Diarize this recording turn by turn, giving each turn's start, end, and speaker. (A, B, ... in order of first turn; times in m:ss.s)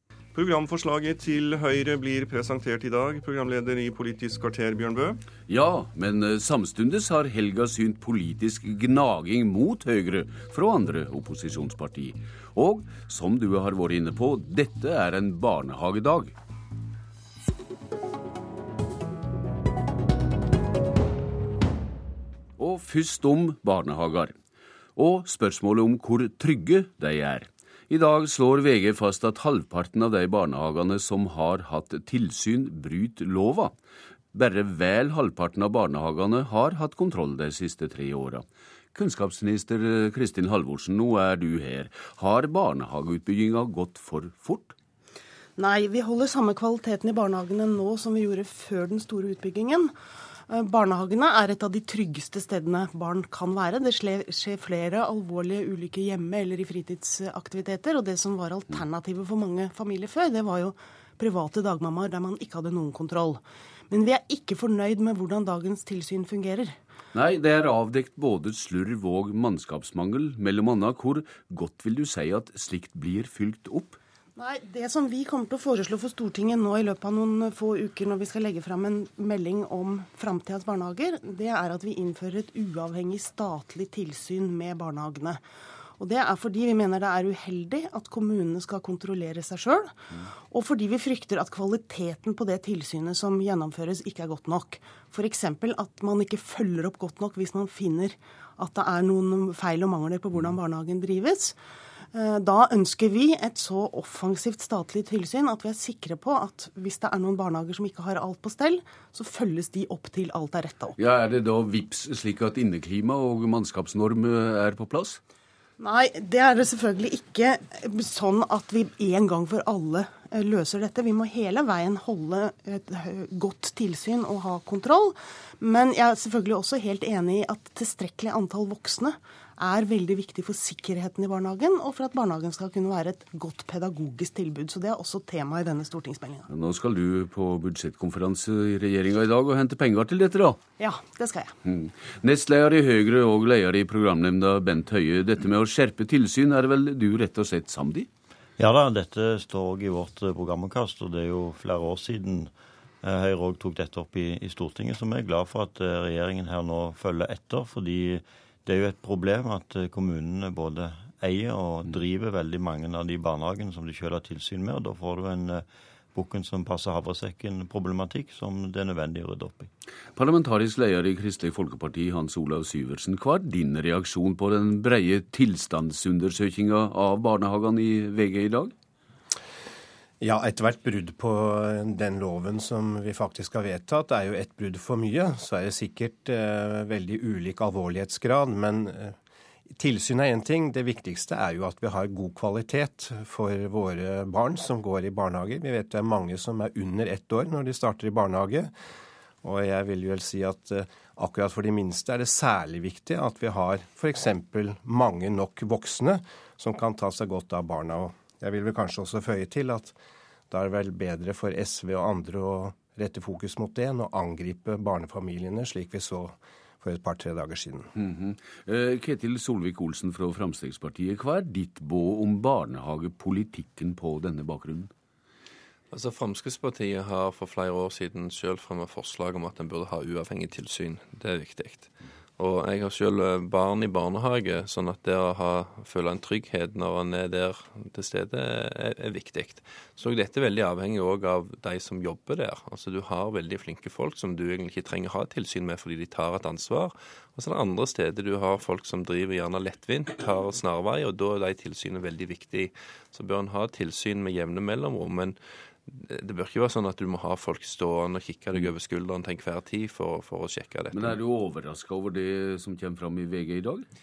0:00.4-0:05.1 A
0:05.5-0:16.4 B
0:22.6-0:24.4 B
0:25.0-0:33.8 B
0:34.3-0:44.8 B
0:45.6-0:49.9 C
0:50.5-1:06.7 C
1:07.1-1:14.0 B
1:14.4-1:25.4 C
1:26.0-1:29.9 C
1:30.5-1:41.6 C
1:42.1-1:51.0 C
1:51.0-1:55.2 B
1:55.8-2:16.5 C
2:16.5-2:20.6 B
2:20.8-2:21.5 C
2:21.6-2:28.1 B
2:28.6-2:32.5 D
2:33.0-2:45.6 D
2:46.1-2:49.7 D
2:50.2-2:58.7 B
3:00.2-3:09.2 E
3:09.8-3:18.7 E
3:19.4-3:30.0 E
3:30.5-3:37.9 E
3:38.0-3:44.9 B
3:45.9-4:21.2 F
4:20.9-4:23.9 B